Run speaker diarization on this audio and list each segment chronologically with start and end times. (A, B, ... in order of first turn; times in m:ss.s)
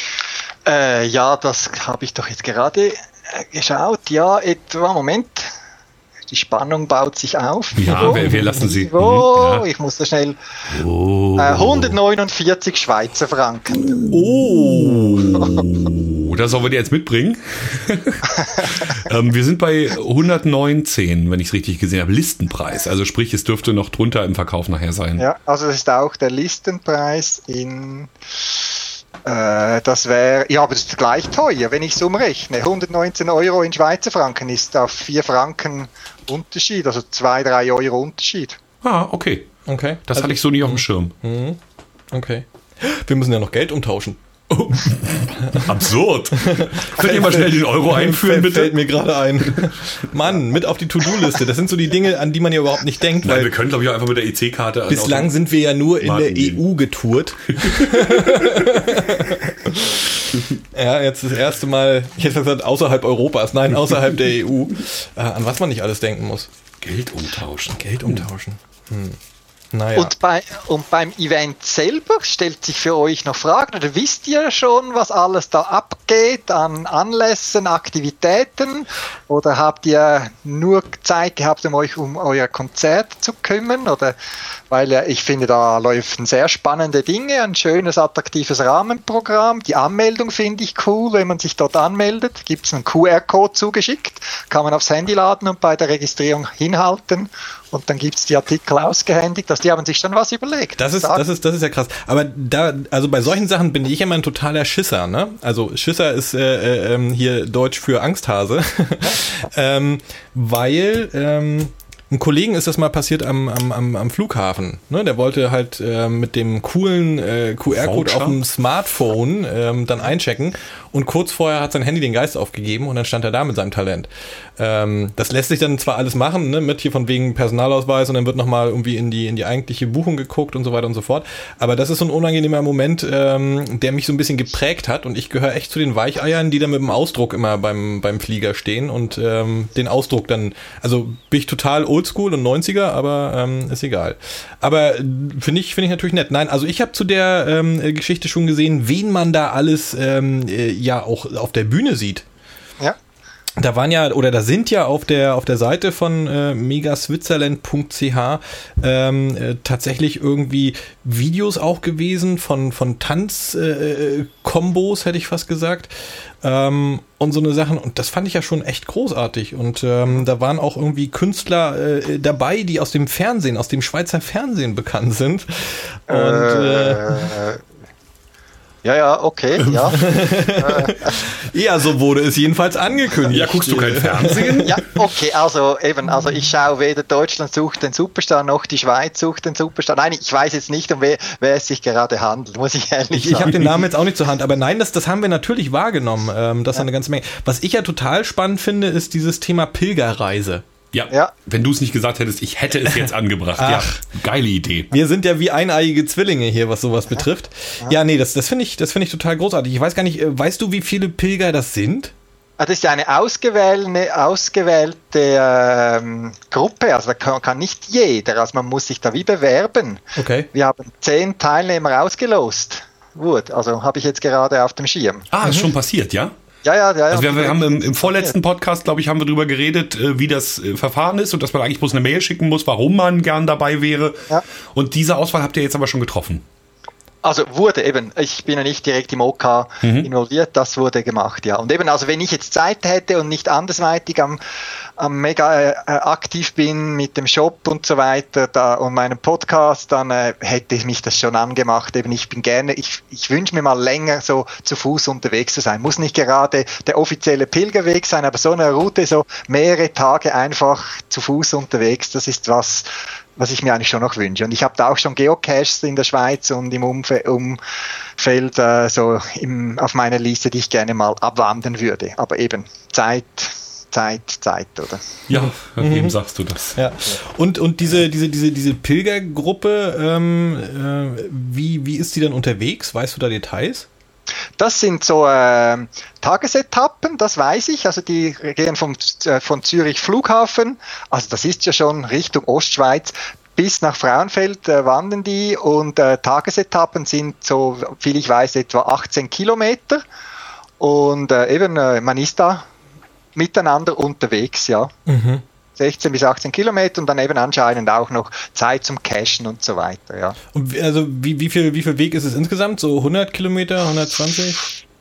0:00.6-0:05.5 A
0:06.3-0:10.4 A
0:07.8-0:09.7 B
0:10.7-0:12.0 B
0:11.4-0:14.0 A
0:13.8-0:25.2 B
0:14.1-0:15.3 C
0:25.2-0:38.6 A
0:38.8-0:39.5 B
0:39.7-0:41.6 C
0:40.1-0:41.1 B
0:42.1-0:44.2 C
0:44.5-0:48.8 B
0:46.4-0:53.5 C
0:53.2-0:55.3 B
0:54.9-1:00.0 C
0:56.0-0:56.6 B
0:57.6-0:59.0 B
1:00.7-1:06.5 C
1:06.8-1:08.2 B
1:07.7-1:09.2 C
1:09.7-1:10.1 C
1:09.9-1:24.2 A
1:24.7-1:41.2 A
1:40.8-2:32.2 C
1:57.8-1:58.4 B
2:33.6-2:57.3 C
2:56.1-2:57.6 A
2:58.8-3:01.1 A
2:59.9-3:04.6 C
3:03.3-3:04.8 B
3:04.6-3:13.5 A
3:13.1-3:20.6 C
3:13.4-3:13.7 B
3:20.9-3:24.9 B
3:23.6-3:24.0 C
3:24.9-3:32.1 C
3:32.6-3:45.3 A
3:40.2-3:40.5 C
3:45.3-3:46.3 B
3:45.4-3:45.7 C
3:46.6-3:48.3 A
3:47.1-3:54.2 B
3:54.7-3:56.4 B
3:57.2-4:04.4 A
3:59.8-4:00.1 B
4:05.0-4:27.6 A
4:28.2-4:35.1 A
4:35.3-4:36.8 B
4:35.3-4:36.1 C
4:36.8-4:43.9 C
4:44.6-5:00.0 A
5:00.8-5:02.7 A
5:03.3-5:04.9 A
5:05.0-5:05.4 C
5:05.8-5:10.4 A
5:10.5-5:14.6 C